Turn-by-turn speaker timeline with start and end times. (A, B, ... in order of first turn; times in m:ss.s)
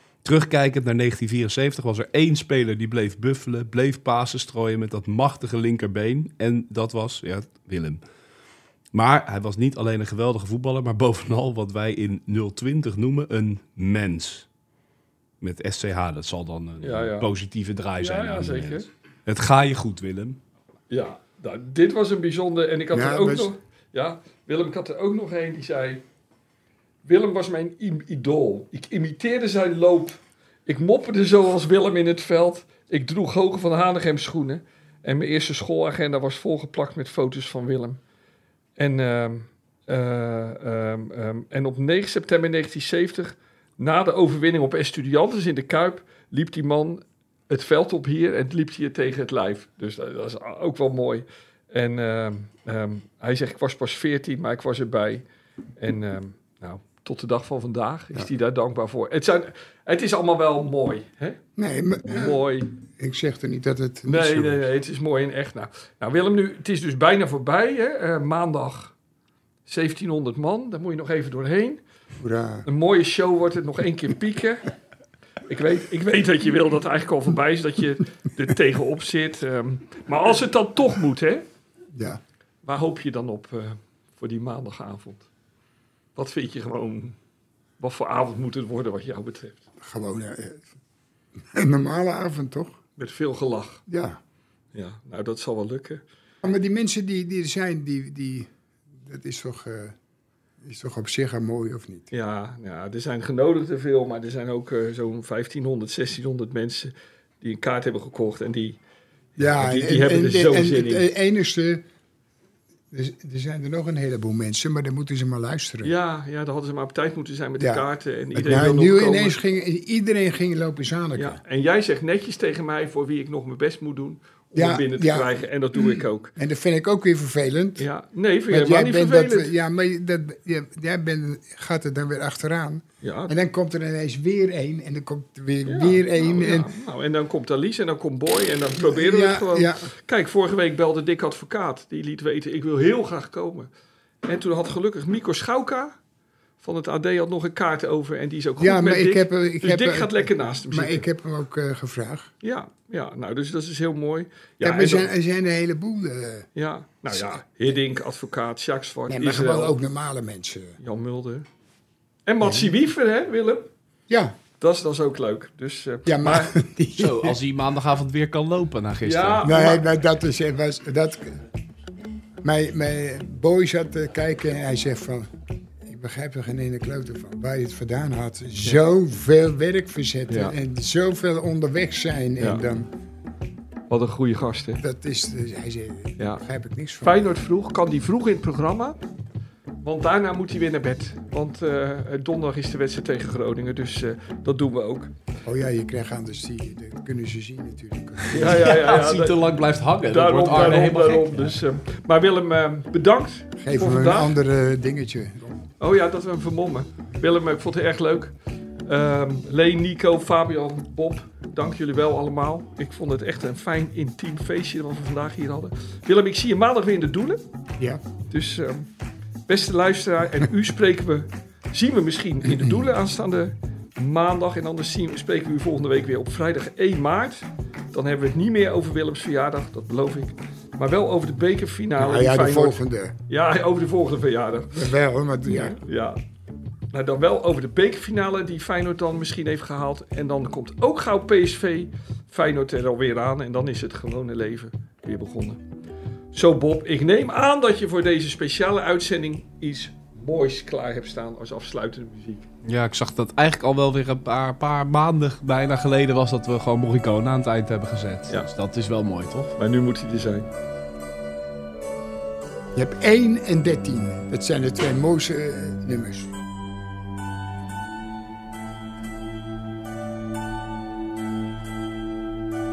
0:00.2-0:08.0 A
0:08.9-0:14.5 A
0:15.4-0:20.4 A
0:16.8-0:17.3 B
0:18.0-0:18.9 B
0:20.9-0:26.0 B
0:22.9-0:23.5 C
0:27.0-0:38.0 B
0:38.8-0:55.2 B
0:55.8-1:01.4 B
1:01.6-1:02.4 C
1:02.1-1:02.7 B
1:03.0-1:04.6 C
1:04.0-1:08.9 B
1:09.6-1:11.8 B
1:12.2-1:12.7 C
1:12.6-1:14.7 B
1:15.5-1:21.4 B
1:21.9-1:22.2 C
1:22.6-1:25.3 B
1:26.2-1:27.2 B
1:27.8-1:29.6 B
1:29.8-1:30.7 C
1:31.4-1:32.8 C
1:33.0-1:33.8 B
1:33.9-1:34.2 C
1:34.7-1:36.0 B
1:36.4-1:40.0 C
1:40.6-1:42.1 C
1:42.1-1:48.8 B
1:49.4-1:51.1 B
1:49.4-1:51.8 C
1:52.9-1:55.9 C
1:55.8-1:59.4 B
1:57.6-2:01.4 C
2:01.2-2:06.3 B
2:04.5-2:07.9 C
2:07.8-2:09.5 B
2:08.5-2:16.7 C
2:13.0-2:13.3 B
2:15.6-2:23.7 B
2:18.8-2:19.9 C
2:24.2-2:26.0 B
2:26.6-2:31.1 B
2:28.6-2:32.3 C
2:32.4-2:35.1 B
2:34.6-2:36.5 C
2:36.6-2:39.8 B
2:37.1-2:37.4 C
2:39.1-2:40.8 C
2:40.8-2:41.4 B
2:42.3-2:43.7 B
2:42.4-2:42.8 C
2:44.1-2:44.4 C
2:44.6-2:46.5 B
2:46.0-2:47.4 C
2:47.0-2:49.5 A
2:49.0-2:49.9 B
2:49.4-2:51.4 C
2:52.4-2:55.3 C
2:55.8-3:02.9 C
3:00.3-3:00.6 B
3:03.9-3:04.8 B
3:04.8-3:07.3 C
3:07.0-3:09.0 B
3:09.8-3:15.1 B
3:15.4-3:18.8 C
3:18.3-3:19.5 B
3:18.4-3:21.6 A
3:20.0-3:24.4 B
3:23.6-3:25.6 C
3:25.8-3:28.3 B
3:28.8-3:37.4 B
3:38.3-3:38.9 B
3:39.5-3:54.8 B
3:42.4-3:42.9 C
3:52.0-3:53.2 C
3:54.7-3:55.8 C
3:55.4-3:56.2 B
3:56.9-4:05.6 B
4:06.3-4:12.5 B
4:12.6-4:19.5 A
4:19.6-4:20.5 B
4:22.7-4:26.3 C